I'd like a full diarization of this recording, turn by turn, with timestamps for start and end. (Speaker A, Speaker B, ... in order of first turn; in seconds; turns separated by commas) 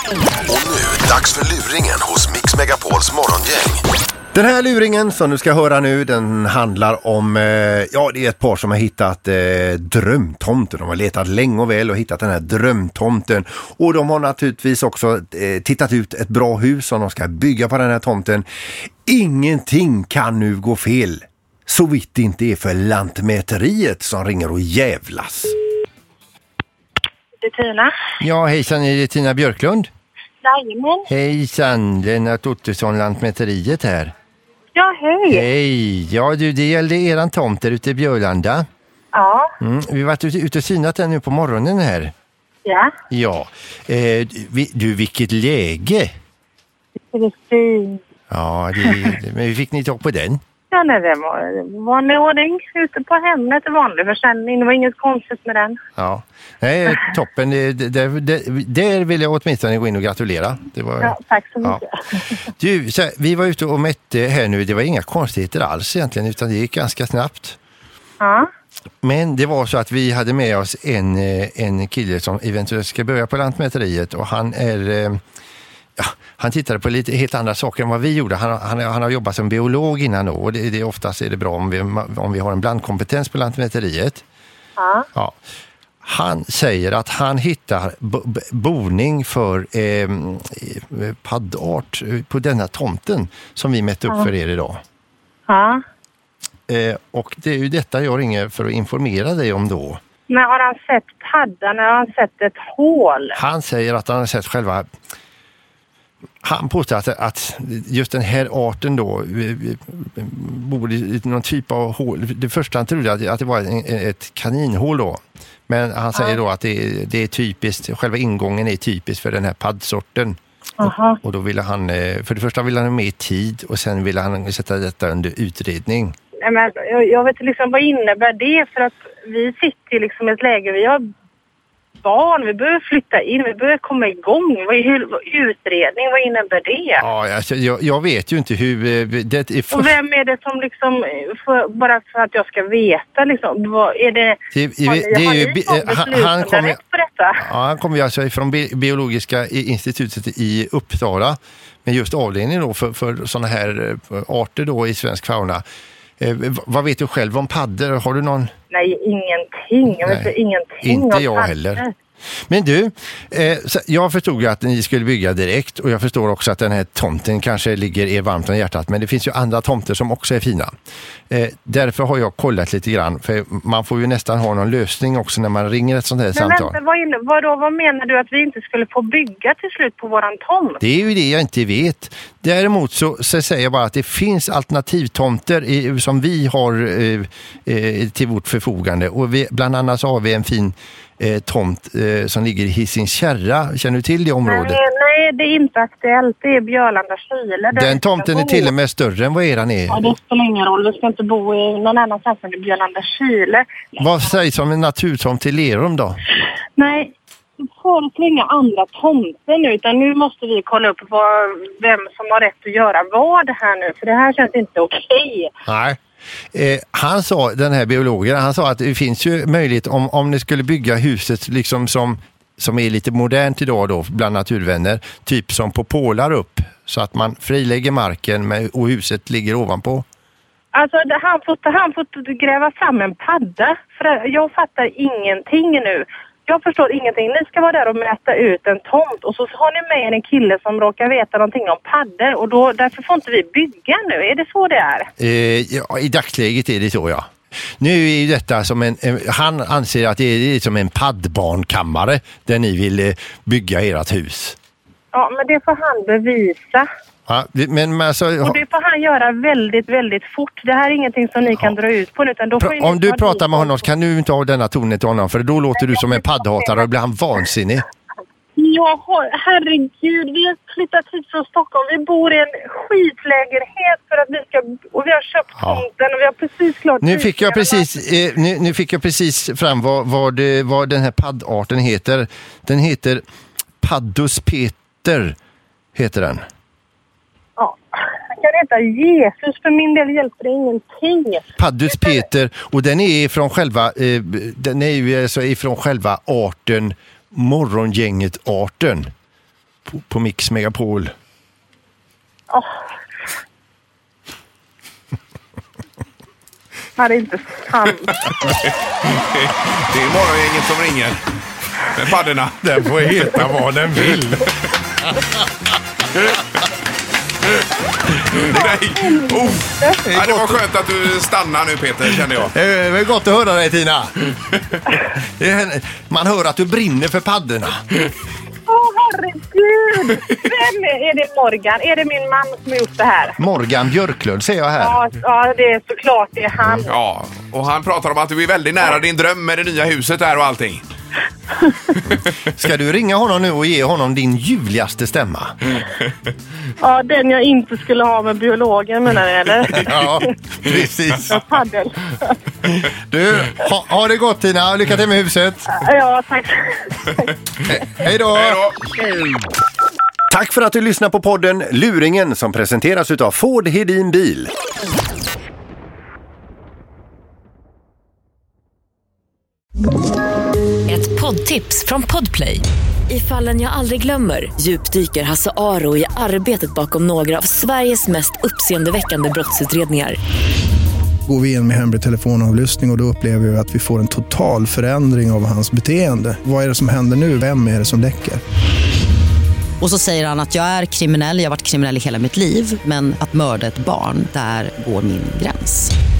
Speaker A: 0.5-3.8, Speaker B: 4.3-18.4, Speaker B: 19.0-25.5, Speaker C: 27.4-27.9, Speaker B: 28.2-29.9, Speaker C: 30.4-31.1, Speaker B: 31.1-34.1, Speaker C: 34.7-35.4, Speaker B: 35.3-38.6, Speaker C: 39.1-39.5, Speaker B: 39.6-42.1, Speaker C: 42.6-42.9, Speaker B: 43.1-46.1, Speaker C: 47.1-48.0, Speaker B: 48.3-50.4, Speaker C: 50.7-55.8, Speaker B: 56.0-61.8, Speaker C: 61.0-61.9, Speaker B: 62.6-67.6, Speaker C: 68.2-68.5, Speaker B: 69.0-75.2, Speaker B: 76.0-84.2, Speaker C: 84.8-85.1, Speaker B: 86.0-94.8, Speaker C: 95.5-95.8, Speaker B: 96.7-100.0, Speaker C: 100.3-103.4, Speaker B: 103.3-104.9, Speaker B: 106.4-126.1, Speaker C: 120.8-121.2, Speaker C: 126.4-131.0, Speaker C: 132.0-137.0, Speaker B: 137.0-139.9, Speaker C: 139.7-147.4, Speaker B: 144.5-146.8, Speaker B: 147.4-155.6, Speaker B: 156.2-158.5, Speaker C: 158.7-161.9, Speaker B: 159.9-161.8, Speaker B: 162.5-170.7, Speaker B: 171.3-176.8, Speaker C: 176.3-180.8, Speaker B: 180.8-194.8, Speaker C: 194.5-198.7, Speaker B: 197.7-200.1, Speaker C: 199.9-203.9, Speaker B: 204.0-206.2, Speaker C: 206.8-215.5, Speaker B: 215.7-216.0, Speaker B: 216.5-230.0, Speaker C: 230.7-245.1, Speaker B: 245.2-254.6, Speaker C: 255.1-256.9, Speaker B: 257.3-258.6, Speaker C: 258.4-263.9, Speaker B: 262.6-267.8, Speaker C: 265.8-266.9, Speaker C: 268.6-277.9, Speaker B: 275.6-275.8, Speaker B: 277.0-283.2, Speaker B: 283.8-285.4, Speaker B: 285.9-286.4, Speaker C: 287.6-292.2, Speaker B: 291.6-299.1, Speaker B: 299.9-301.1, Speaker C: 307.0-308.2, Speaker D: 308.6-311.2, Speaker D: 311.9-314.4, Speaker B: 312.6-314.4, Speaker D: 318.1-322.5, Speaker C: 318.6-320.0, Speaker B: 320.0-320.6, Speaker B: 322.5-324.1, Speaker B: 325.0-327.8, Speaker C: 328.7-333.4, Speaker B: 333.4-335.0, Speaker C: 334.8-336.9, Speaker D: 336.9-340.8, Speaker B: 342.6-345.6, Speaker C: 346.8-350.2, Speaker B: 349.8-351.4, Speaker C: 351.3-352.3, Speaker B: 352.8-355.7, Speaker C: 355.8-357.3, Speaker B: 357.7-358.7, Speaker D: 358.4-358.7, Speaker B: 360.3-364.5, Speaker E: 370.9-380.2, Speaker F: 381.2-388.4, Speaker G: 389.8-395.9